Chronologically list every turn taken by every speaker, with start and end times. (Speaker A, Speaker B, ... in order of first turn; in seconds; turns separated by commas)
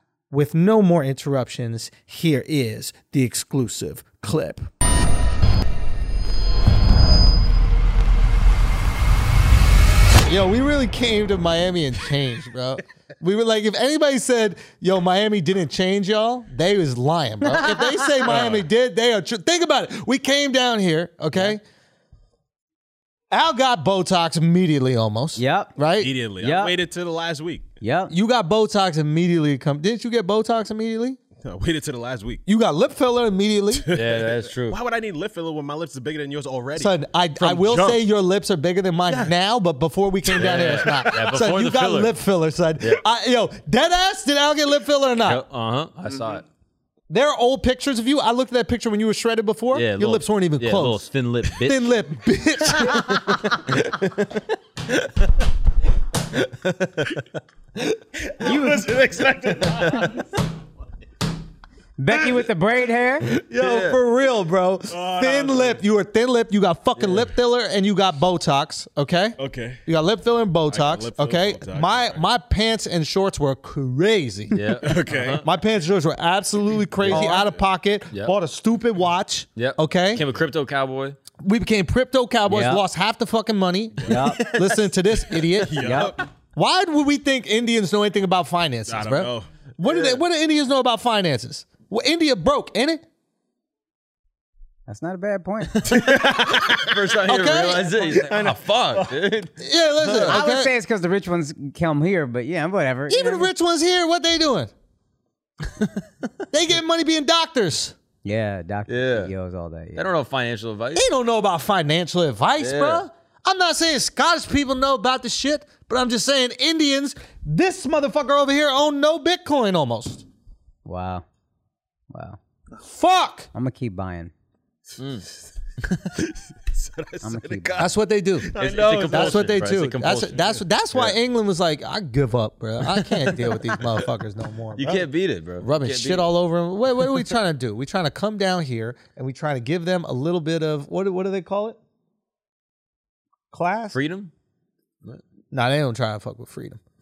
Speaker A: 0.3-4.7, Speaker A: 10.2-21.6, Speaker B: 17.4-18.3, Speaker C: 18.3-18.7, Speaker A: 23.3-26.1, Speaker B: 25.4-25.7, Speaker C: 26.0-27.7, Speaker B: 26.4-26.7, Speaker B: 27.8-28.1, Speaker A: 28.1-31.2, Speaker C: 31.4-32.4, Speaker A: 32.5-33.9, Speaker C: 33.8-38.0, Speaker D: 33.9-34.8, Speaker A: 36.8-45.4, Speaker C: 39.1-39.3, Speaker C: 40.2-41.3, Speaker D: 40.4-42.2, Speaker D: 45.2-46.5, Speaker A: 47.1-53.6, Speaker D: 49.7-52.0, Speaker D: 53.7-55.1, Speaker D: 56.4-57.2, Speaker C: 58.2-60.2, Speaker B: 58.5-58.9, Speaker B: 62.0-63.3, Speaker A: 63.3-74.9, Speaker D: 63.6-64.0, Speaker C: 64.9-65.8, Speaker D: 67.0-67.2, Speaker C: 69.4-69.8, Speaker C: 70.7-72.2, Speaker D: 74.5-75.5, Speaker C: 74.8-75.4, Speaker A: 75.4-80.3, Speaker B: 77.1-77.5, Speaker D: 79.6-81.2, Speaker A: 81.4-93.0, Speaker B: 82.5-82.8, Speaker C: 84.0-84.3, Speaker B: 84.1-84.5, Speaker D: 84.3-84.8, Speaker C: 85.6-86.2, Speaker B: 85.8-86.2, Speaker C: 88.9-89.5, Speaker D: 89.8-90.2, Speaker B: 94.9-95.9, Speaker C: 95.8-97.0, Speaker D: 95.9-100.4, Speaker A: 97.3-98.1, Speaker C: 98.1-99.2, Speaker A: 99.6-100.7, Speaker B: 100.3-103.5, Speaker A: 103.1-104.7, Speaker A: 106.5-108.0, Speaker B: 108.2-110.1, Speaker D: 108.9-109.3, Speaker D: 110.0-111.1, Speaker A: 111.0-120.2, Speaker D: 112.6-113.0, Speaker B: 120.8-121.2, Speaker B: 122.1-122.4, Speaker A: 122.8-123.5, Speaker B: 123.5-124.3, Speaker D: 125.0-125.3, Speaker C: 126.7-127.9, Speaker B: 127.2-127.9, Speaker A: 127.8-135.1, Speaker C: 128.4-129.5, Speaker D: 128.5-131.2, Speaker D: 132.9-133.9, Speaker D: 134.7-136.3, Speaker A: 135.6-141.8, Speaker A: 143.5-144.0, Speaker D: 143.9-144.3, Speaker A: 145.5-146.8